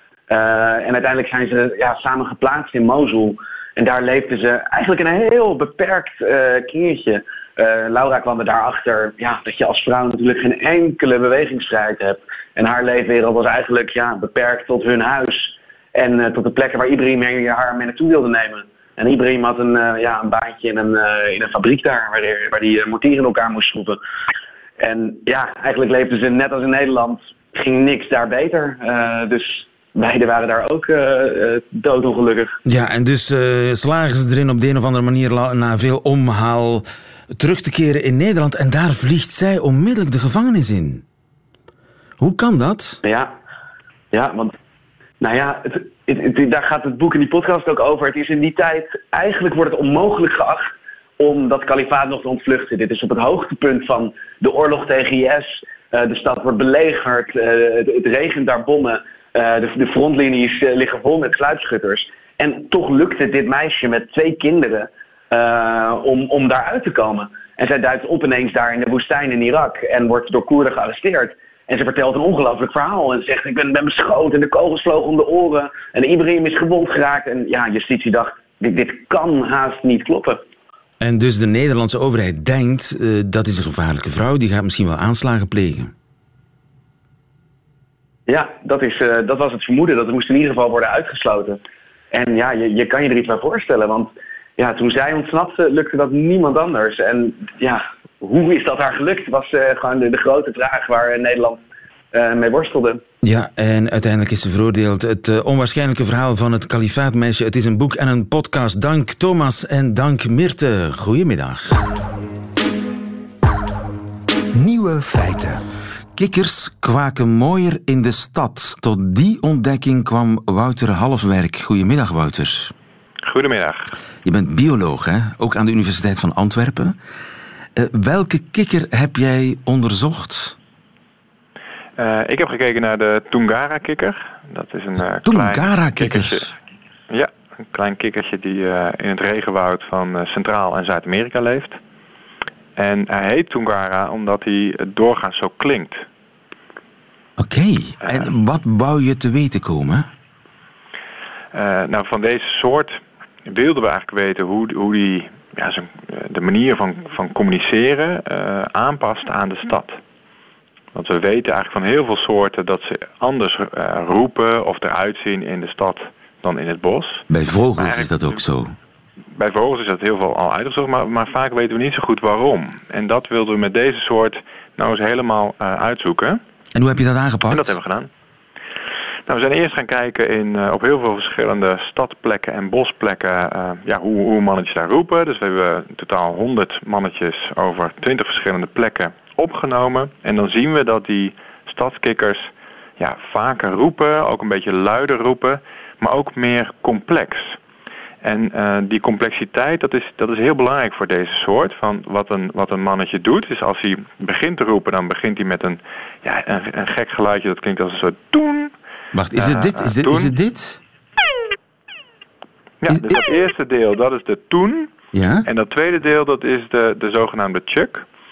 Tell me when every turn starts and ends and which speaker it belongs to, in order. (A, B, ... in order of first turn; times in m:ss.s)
0:00.3-0:24.0 A
0:24.8-0:32.6 A
0:32.6-0:41.0 B
0:42.2-0:43.0 B
0:43.0-0:43.3 A
0:44.1-0:44.5 A
0:45.2-1:20.4 A
1:21.0-1:25.9 B
1:28.3-1:31.6 A
1:32.1-1:43.0 A
1:43.2-1:51.8 B
1:54.5-1:55.6 B
1:56.2-2:02.7 B
2:03.2-2:03.9 C
2:04.2-2:07.0 B
2:07.8-2:10.6 B
2:12.0-2:16.5 C
2:15.2-2:16.5 B
2:17.1-2:21.8 C
2:22.8-2:26.0 C
2:27.4-2:30.1 B
2:31.5-2:40.0 C
2:40.9-2:47.2 C
2:47.3-2:48.7 B
2:47.8-2:48.4 C
2:49.3-2:56.4 C
2:56.7-2:57.8 B
2:57.5-2:58.1 C
2:59.3-3:17.6 C
3:18.2-3:28.7 C
3:29.1-3:30.8 B
3:29.3-3:30.3 C
3:32.8-3:34.9 C
3:35.1-3:35.4 B
3:35.4-3:38.0 C